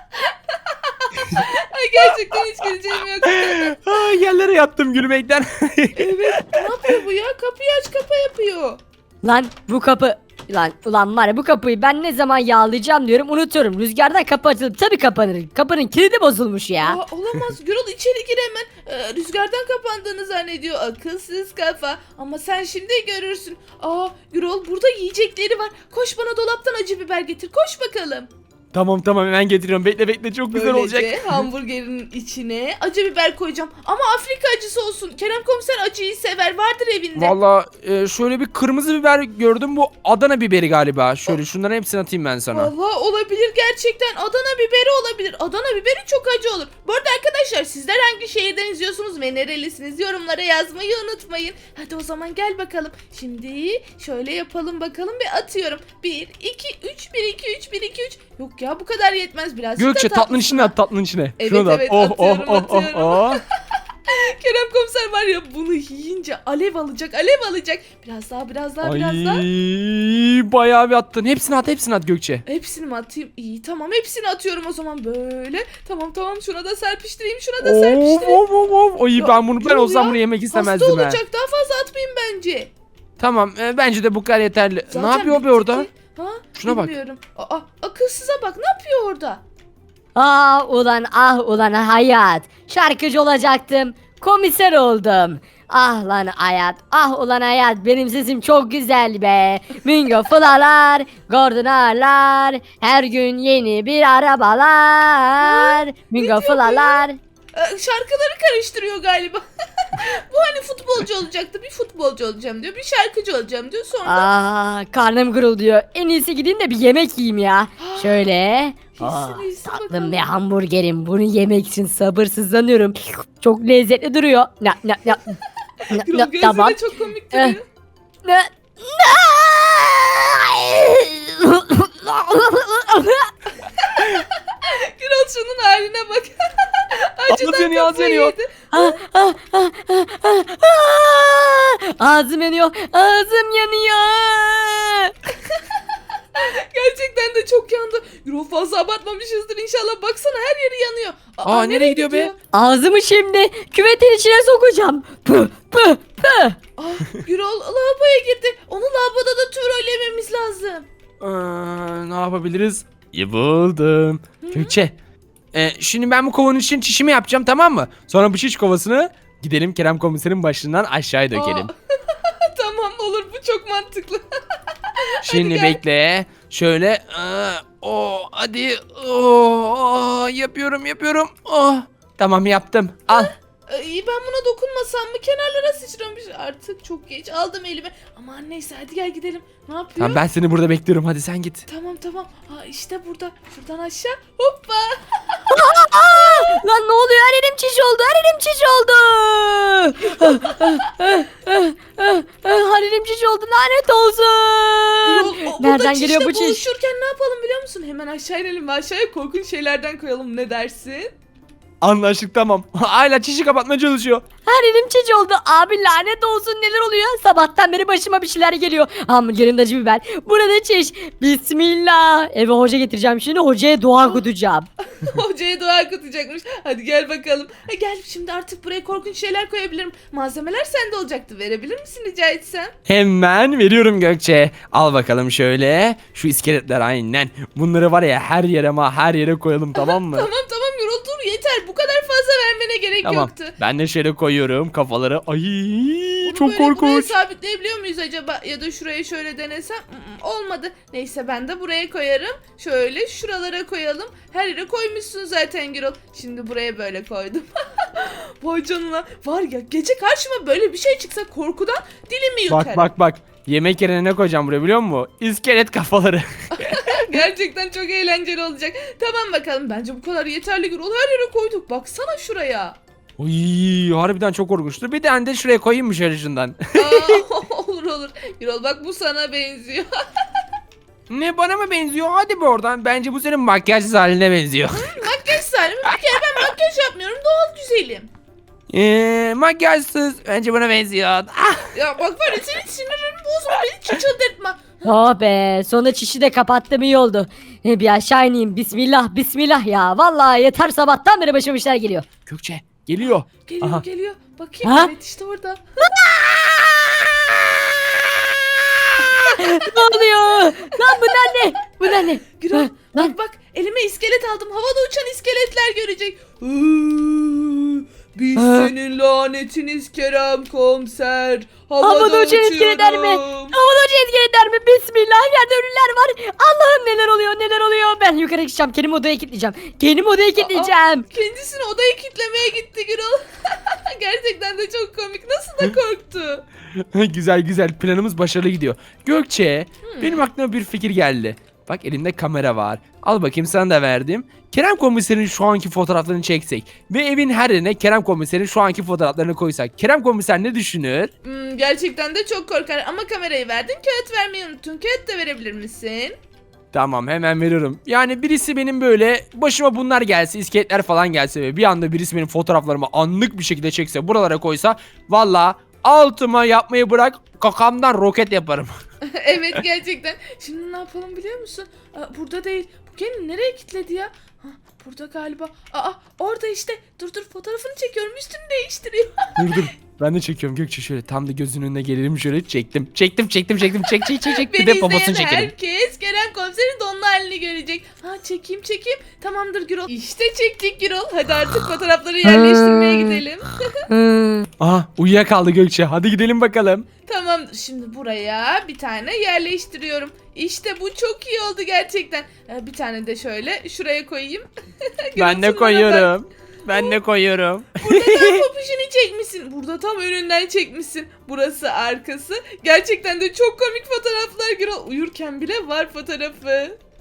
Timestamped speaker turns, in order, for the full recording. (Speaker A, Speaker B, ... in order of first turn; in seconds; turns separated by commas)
Speaker A: 0.3-3.8, Speaker B: 3.3-6.7, Speaker A: 6.0-8.8, Speaker C: 9.2-17.0, Speaker A: 16.8-28.3, Speaker B: 28.7-31.4, Speaker A: 30.5-37.3, Speaker B: 37.1-42.7, Speaker A: 42.5-60.7, Speaker B: 59.8-63.4, Speaker A: 61.4-63.4, Speaker A: 64.1-69.5, Speaker B: 68.8-72.4, Speaker A: 72.5-78.4, Speaker B: 77.6-81.2, Speaker A: 79.2-82.7, Speaker B: 83.2-85.9, Speaker A: 84.9-89.4, Speaker B: 86.6-86.9, Speaker C: 90.2-107.2, Speaker A: 105.4-114.3, Speaker C: 114.0-125.3, Speaker A: 117.8-118.3, Speaker A: 118.9-120.2, Speaker A: 125.8-127.6, Speaker C: 125.9-126.8, Speaker C: 128.2-133.3, Speaker A: 133.7-138.9, Speaker B: 137.3-138.3, Speaker C: 138.7-145.1, Speaker A: 146.3-152.3, Speaker B: 151.4-152.3, Speaker C: 152.5-156.6, Speaker A: 156.8-160.8, Speaker B: 161.2-164.9, Speaker A: 164.4-164.8, Speaker B: 165.5-171.7, Speaker A: 171.3-174.2, Speaker A: 175.2-175.8, Speaker B: 175.2-183.3, Speaker A: 183.1-190.2, Speaker B: 190.0-191.6, Speaker A: 191.7-195.5, Speaker C: 195.5-206.6, Speaker A: 196.1-196.4, Speaker A: 200.2-200.6, Speaker A: 205.0-211.1, Speaker B: 211.8-214.2, Speaker C: 214.4-224.7, Speaker A: 224.9-232.7, Speaker B: 232.9-240.3, Speaker A: 239.7-243.6, Speaker B: 243.0-247.1, Speaker A: 246.2-262.9, Speaker B: 262.5-267.1, Speaker A: 266.6-272.8, Speaker B: 273.2-277.2, Speaker A: 276.7-279.9, Speaker B: 281.1-284.9, Speaker A: 284.7-288.1, Speaker B: 288.7-291.7, Speaker A: 291.7-294.9, Speaker C: 294.8-302.1, Speaker B: 302.3-303.8, Speaker A: 303.3-305.6, Speaker C: 304.6-304.9, Speaker C: 306.0-306.7, Speaker C: 309.0-313.1, Speaker A: 309.1-310.0, Speaker A: 310.7-311.2, Speaker A: 311.8-323.6, Speaker C: 318.4-318.7, Speaker C: 321.8-331.0, Speaker A: 330.4-336.4, Speaker B: 336.8-351.1, Speaker A: 339.8-340.2, Speaker A: 351.2-356.1, Speaker B: 356.7-368.7, Speaker A: 369.0-379.6, Speaker B: 379.4-385.5, Speaker A: 384.2-393.5, Speaker C: 392.2-393.2, Speaker C: 393.9-394.5, Speaker B: 394.6-396.9, Speaker A: 397.1-404.5, Speaker A: 405.1-406.1, Speaker B: 405.1-408.4, Speaker A: 406.7-406.9, Speaker A: 407.8-416.8